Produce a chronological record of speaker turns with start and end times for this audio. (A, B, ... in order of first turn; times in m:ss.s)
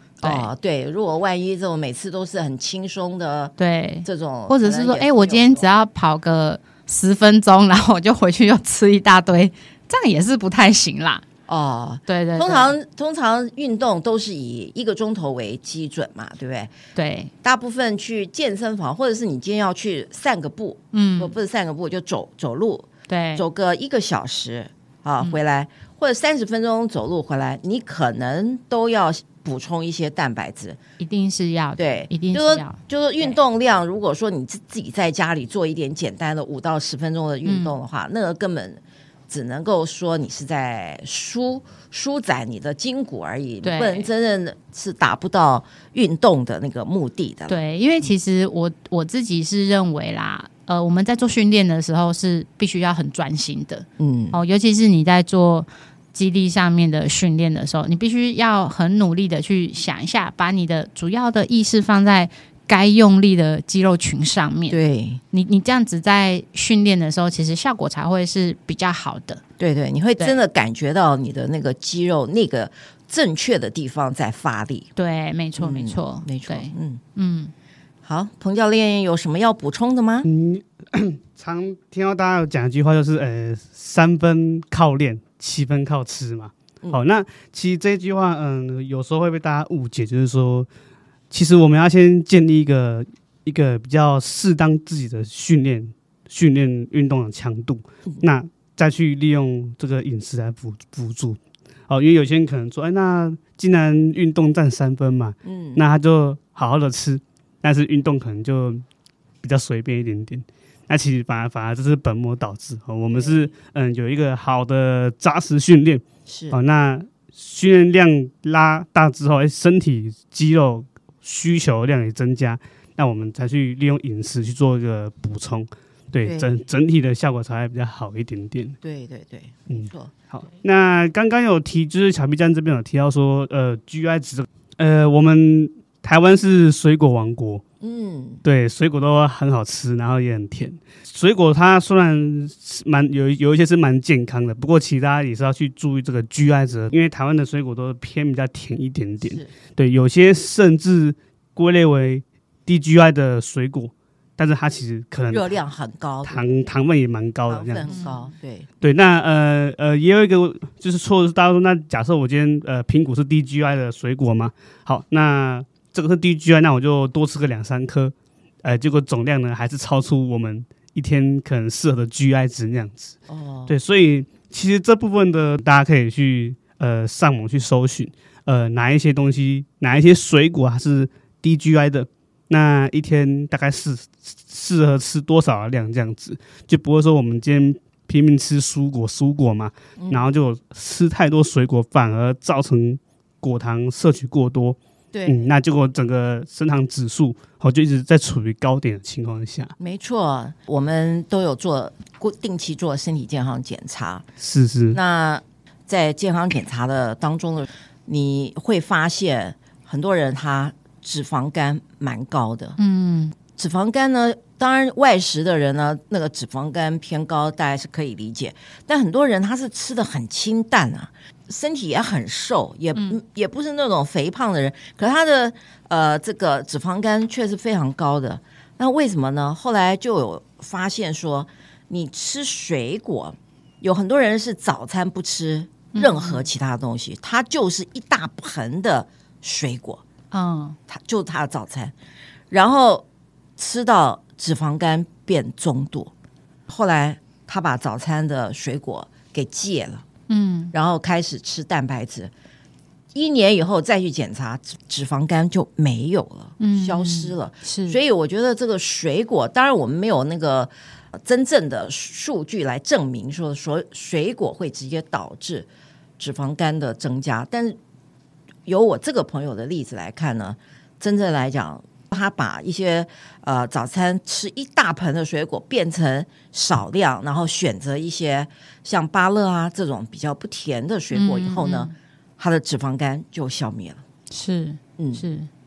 0:00.2-0:00.5 A
0:00.2-0:05.7 B
0:03.6-0:11.2 A
0:11.5-0:16.7 B
0:12.1-0:12.7 A
0:17.0-0:17.3 A
0:17.4-0:30.8 B
0:20.9-0:21.4 A
0:23.1-0:23.4 A
0:31.0-0:33.4 A
0:31.8-0:47.6 B
0:37.4-0:37.8 A
0:43.6-0:44.1 A
0:47.5-1:04.8 A
0:54.0-0:54.4 B
1:04.7-1:05.2 B
1:05.3-1:09.4 A
1:09.6-1:14.9 B
1:15.0-1:17.5 A
1:15.6-1:17.0 B
1:18.0-1:20.3 B
1:20.2-1:30.7 C
1:31.3-1:48.8 C
1:45.4-1:45.8 B
1:49.4-2:08.8 C
1:53.2-1:53.5 B
1:56.3-1:56.6 B
2:08.8-2:10.1 B
2:09.7-2:17.6 C
2:17.8-2:18.4 B
2:18.4-2:35.6 C
2:29.2-2:29.5 B
2:35.3-2:36.5 B
2:36.2-2:38.0 C
2:37.5-2:38.7 B
2:37.9-2:38.3 A
2:38.8-2:53.2 C
2:53.3-2:53.8 B
2:53.7-3:19.7 C
3:10.0-3:10.3 B
3:15.1-3:15.5 B
3:19.8-3:24.3 B
3:24.4-3:25.0 C
3:24.9-3:32.8 B
3:32.8-3:33.4 A
3:33.6-4:00.0 B
3:56.0-3:56.5 A
4:00.3-4:00.8 A
4:00.9-4:01.9 B
4:02.5-4:03.0 B
4:03.6-4:06.1 B
4:06.7-4:10.0 B
4:10.3-4:10.7 A
4:10.7-4:12.3 B
4:13.1-4:25.7 B
4:16.6-4:18.0 A
4:26.2-4:27.8 B
4:28.7-4:44.0 B
4:41.1-4:41.9 A
4:44.3-4:45.5 A
4:45.0-4:45.2 B